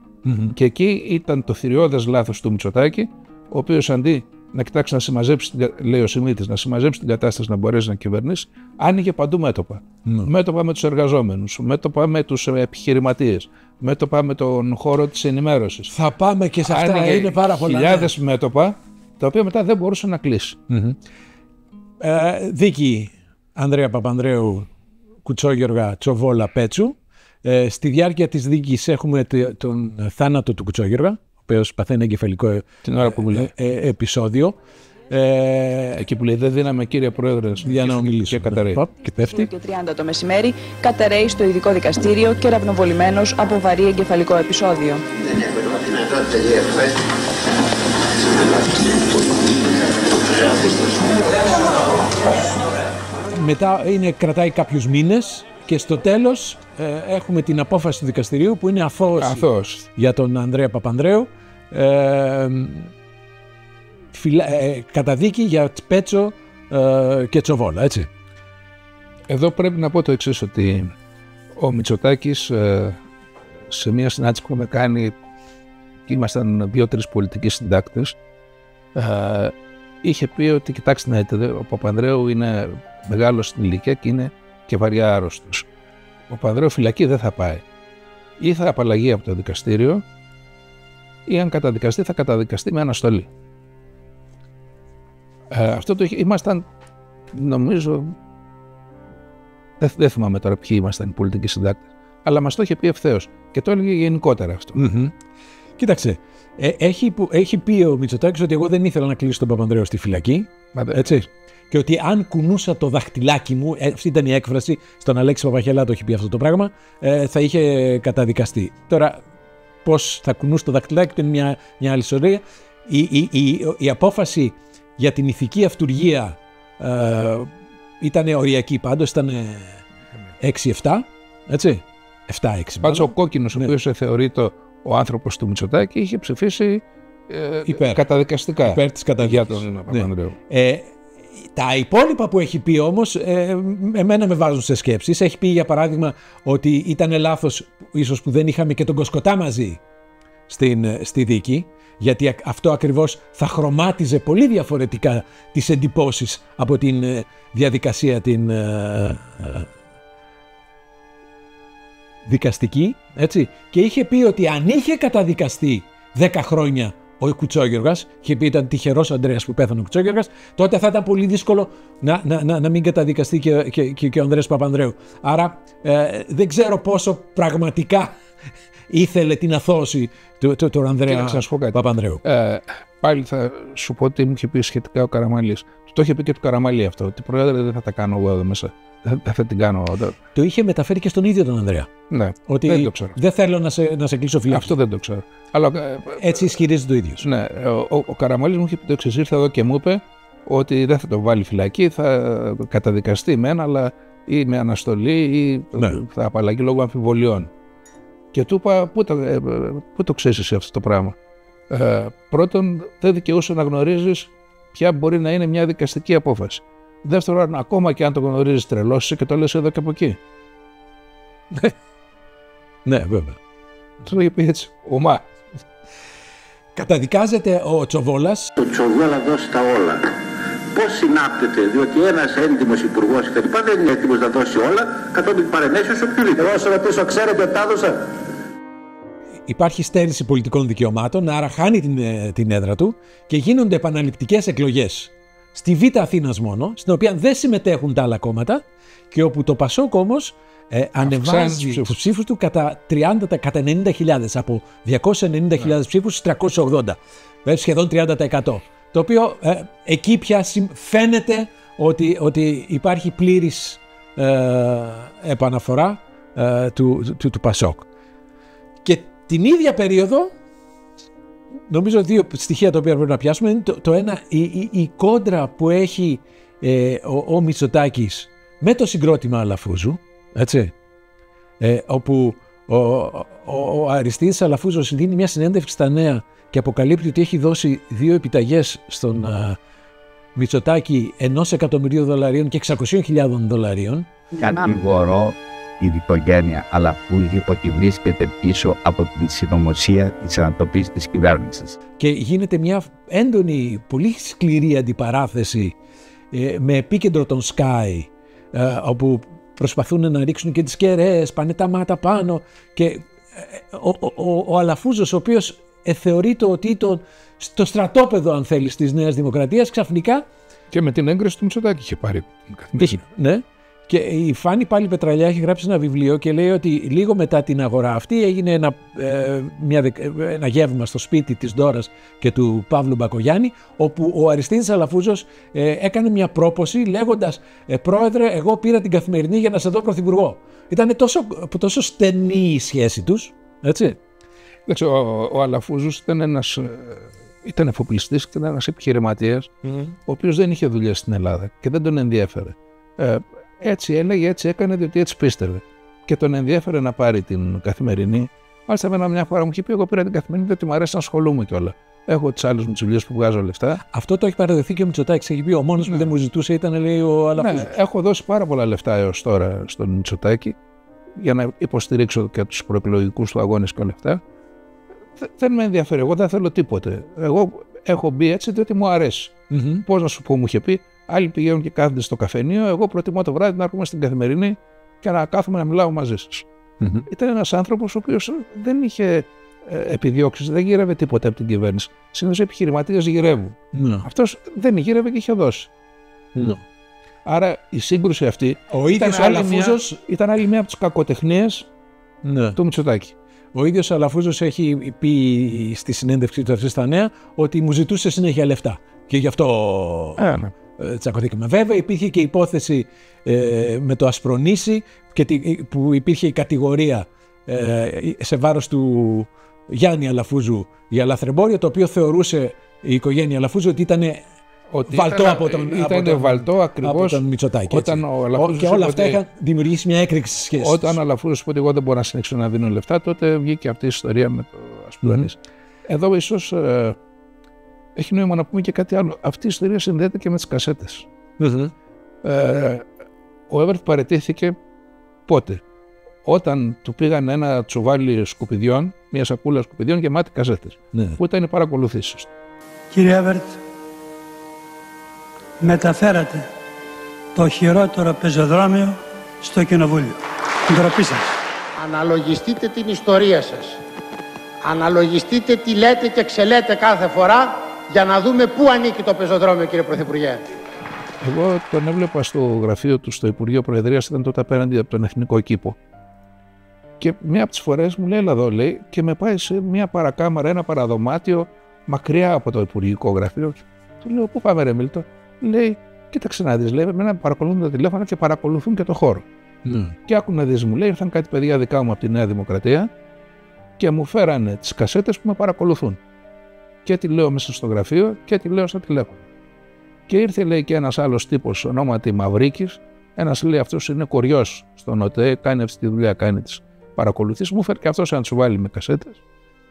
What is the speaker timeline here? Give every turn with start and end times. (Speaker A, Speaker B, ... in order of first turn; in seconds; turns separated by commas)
Speaker A: 0.2-0.6, Speaker B: 0.6-15.9, Speaker A: 15.9-18.1, Speaker B: 16.7-20.6, Speaker A: 20.7-21.0, Speaker A: 22.0-24.7, Speaker A: 25.2-34.6, Speaker B: 32.9-33.5, Speaker A: 35.1-36.0, Speaker B: 36.0-38.8, Speaker A: 37.6-39.5, Speaker C: 39.1-45.0, Speaker A: 53.3-62.9, Speaker B: 59.2-59.9, Speaker A: 64.1-68.1, Speaker B: 69.3-70.9, Speaker B: 71.6-73.0, Speaker B: 73.7-75.2, Speaker B: 76.1-78.2, Speaker B: 79.0-85.7, Speaker B: 86.3-87.6, Speaker B: 88.4-90.0, Speaker B: 91.3-93.3, Speaker B: 95.5-96.7, Speaker B: 97.3-98.1, Speaker B: 99.8-104.8, Speaker A: 104.8-105.1, Speaker A: 105.8-119.2, Speaker B: 110.7-111.2, Speaker A: 119.8-129.8, Speaker A: 130.4-133.7, Speaker B: 132.8-140.4, Speaker A: 137.7-138.0, Speaker A: 138.7-149.8, Speaker A: 150.5-159.7, Speaker A: 162.3-178.2, Speaker A: 178.9-182.2, Speaker B: 181.1-190.2, Speaker A: 190.3-191.9, Speaker B: 192.1-193.2, Speaker A: 192.5-194.7, Speaker B: 194.5-196.6, Speaker A: 196.1-197.3, Speaker B: 197.2-207.5, Speaker B: 208.3-211.2, Speaker B: 211.7-220.2, Speaker A: 222.9-223.4, Speaker B: 224.1-225.2, Speaker A: 226.8-228.5, Speaker D: 228.8-230.0, Speaker D: 230.8-238.0, Speaker A: 239.5-267.9, Speaker B: 251.0-252.0, Speaker A: 268.9-270.3, Speaker A: 271.7-280.7, Speaker A: 281.6-289.6, Speaker A: 290.4-294.1, Speaker E: 294.3-301.8, Speaker A: 302.0-305.8, Speaker A: 306.3-320.2, Speaker B: 320.7-323.0, Speaker A: 322.8-344.0, Speaker B: 344.7-349.5, Speaker A: 349.6-349.9, Speaker B: 350.1-363.8, Speaker A: 363.9-367.7, Speaker B: 367.4-370.6, Speaker B: 371.2-374.2, Speaker B: 375.2-386.5, Speaker A: 379.5-379.8, Speaker A: 386.8-387.1, Speaker B: 387.1-395.7, Speaker A: 393.7-394.1, Speaker A: 396.4-396.6, Speaker B: 397.2-401.7, Speaker A: 398.7-400.0, Speaker A: 402.2-402.6, Speaker B: 402.6-403.1, Speaker A: 403.5-410.2, Speaker B: 410.2-410.5, Speaker A: 410.8-424.2, Speaker B: 424.7-429.2, Speaker A: 424.9-431.0, Speaker B: 430.6-437.0, Speaker A: 435.0-435.3, Speaker B: 438.0-441.1, Speaker A: 441.4-441.7, Speaker B: 442.2-442.8, Speaker B: 443.5-444.6, Speaker B: 445.3-445.6, Speaker B: 446.2-452.3, Speaker A: 450.9-451.2, Speaker F: 452.9-453.6, Speaker F: 455.6-456.5, Speaker F: 457.4-461.4, Speaker G: 461.8-463.8, Speaker G: 464.6-470.5, Speaker B: 471.2-475.8, Speaker B: 477.0-489.2, Speaker A: 489.6-490.0, Speaker B: 490.1-492.9, Speaker B: 493.8-496.0, Speaker B: 496.9-499.2, Speaker B: 500.1-509.2